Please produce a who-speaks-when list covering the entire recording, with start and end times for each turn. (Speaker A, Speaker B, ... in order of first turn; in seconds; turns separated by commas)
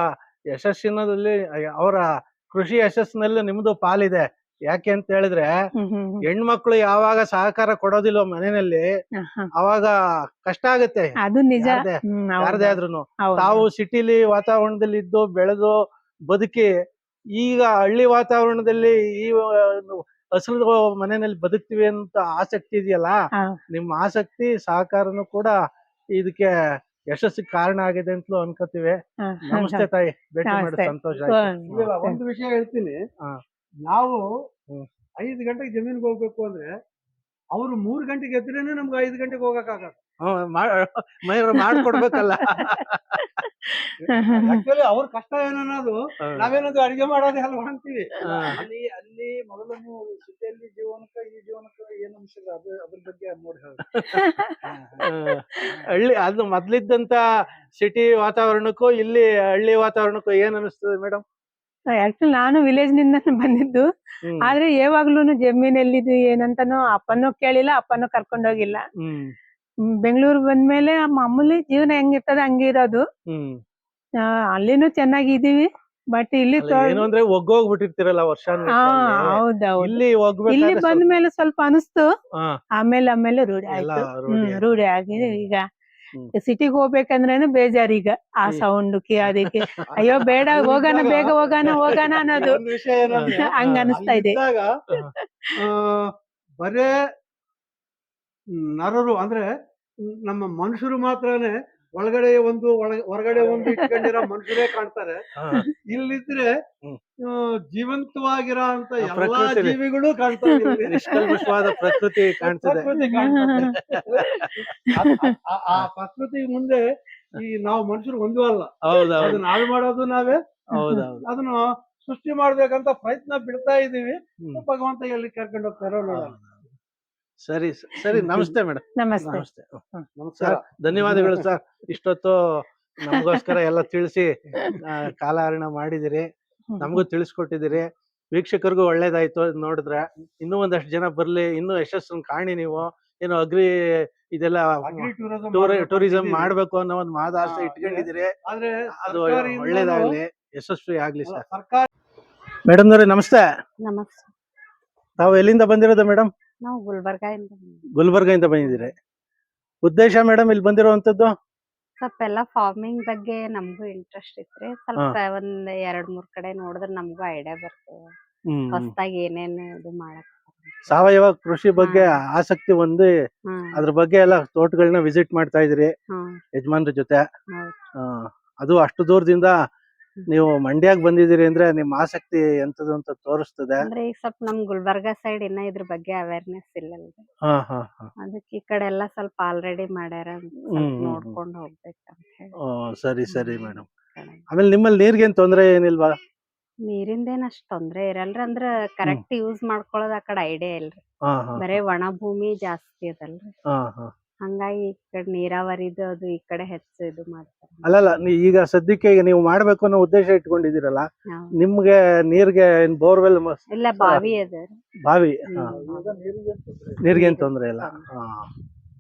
Speaker A: 0.5-5.5, Speaker B: 5.8-6.2, Speaker A: 6.2-8.9, Speaker B: 9.2-9.5, Speaker A: 9.6-16.7, Speaker B: 11.2-13.7, Speaker A: 17.4-23.1, Speaker A: 23.7-25.5, Speaker A: 26.2-26.5, Speaker A: 27.1-29.0, Speaker B: 29.2-29.9, Speaker A: 29.5-31.9, Speaker B: 30.4-32.2, Speaker C: 31.7-33.0, Speaker C: 33.9-34.2, Speaker C: 35.2-36.7, Speaker C: 37.5-40.0, Speaker A: 40.2-43.2, Speaker B: 41.6-44.6, Speaker C: 44.1-48.7, Speaker A: 48.3-48.6, Speaker D: 48.4-54.0, Speaker B: 54.1-54.6, Speaker D: 54.6-55.0, Speaker A: 55.0-57.2, Speaker A: 57.8-61.2, Speaker B: 62.0-63.9, Speaker B: 64.4-68.8, Speaker A: 69.0-69.3, Speaker B: 69.9-73.0, Speaker A: 73.3-73.6, Speaker B: 74.5-77.1, Speaker A: 76.6-81.0, Speaker B: 78.7-82.1, Speaker B: 82.8-85.6, Speaker A: 83.7-85.4, Speaker B: 86.3-92.6, Speaker A: 89.4-90.3, Speaker C: 90.1-94.7, Speaker A: 91.6-92.2, Speaker A: 93.1-94.0, Speaker B: 93.3-94.4, Speaker B: 95.0-95.5, Speaker C: 95.6-96.9, Speaker C: 98.5-99.5, Speaker C: 100.0-105.2, Speaker B: 103.6-104.6, Speaker A: 105.4-105.7, Speaker C: 105.8-106.5, Speaker C: 107.2-111.4, Speaker A: 109.0-109.8, Speaker B: 110.4-111.9, Speaker A: 110.8-112.9, Speaker C: 112.4-120.6, Speaker B: 112.8-113.8, Speaker A: 113.5-114.7, Speaker B: 114.3-115.3, Speaker A: 118.8-119.6, Speaker A: 120.7-121.2, Speaker B: 120.7-121.1, Speaker C: 121.2-126.4, Speaker A: 126.1-126.6, Speaker A: 127.4-129.8, Speaker C: 128.2-128.5, Speaker B: 128.9-130.1, Speaker C: 130.2-131.4, Speaker A: 130.4-136.2, Speaker B: 133.1-133.5, Speaker B: 136.7-137.0, Speaker A: 136.8-148.3, Speaker C: 144.8-146.5, Speaker C: 147.4-150.2, Speaker A: 149.1-151.4, Speaker C: 151.2-151.9, Speaker A: 152.7-153.4, Speaker E: 153.8-154.3, Speaker A: 155.2-156.3, Speaker E: 156.6-157.8, Speaker A: 157.9-158.9, Speaker A: 159.8-161.3, Speaker E: 162.0-168.1, Speaker A: 168.5-168.9, Speaker E: 168.7-170.8, Speaker A: 170.9-173.1, Speaker E: 171.8-172.2, Speaker A: 173.7-175.9, Speaker A: 176.6-177.2, Speaker E: 177.5-177.8, Speaker A: 178.0-179.5, Speaker A: 180.3-183.9, Speaker E: 183.8-187.2, Speaker A: 187.5-188.1, Speaker E: 188.2-192.5, Speaker A: 190.7-191.4, Speaker A: 192.6-193.9, Speaker E: 193.3-194.4, Speaker A: 194.5-196.1, Speaker E: 196.8-201.0, Speaker A: 201.3-201.8, Speaker E: 201.6-203.5, Speaker A: 203.7-204.1, Speaker E: 204.4-207.8, Speaker A: 207.8-214.3, Speaker E: 213.7-214.8, Speaker A: 215.1-215.8, Speaker D: 215.6-217.5, Speaker E: 215.6-216.2, Speaker A: 217.0-218.5, Speaker E: 217.7-218.0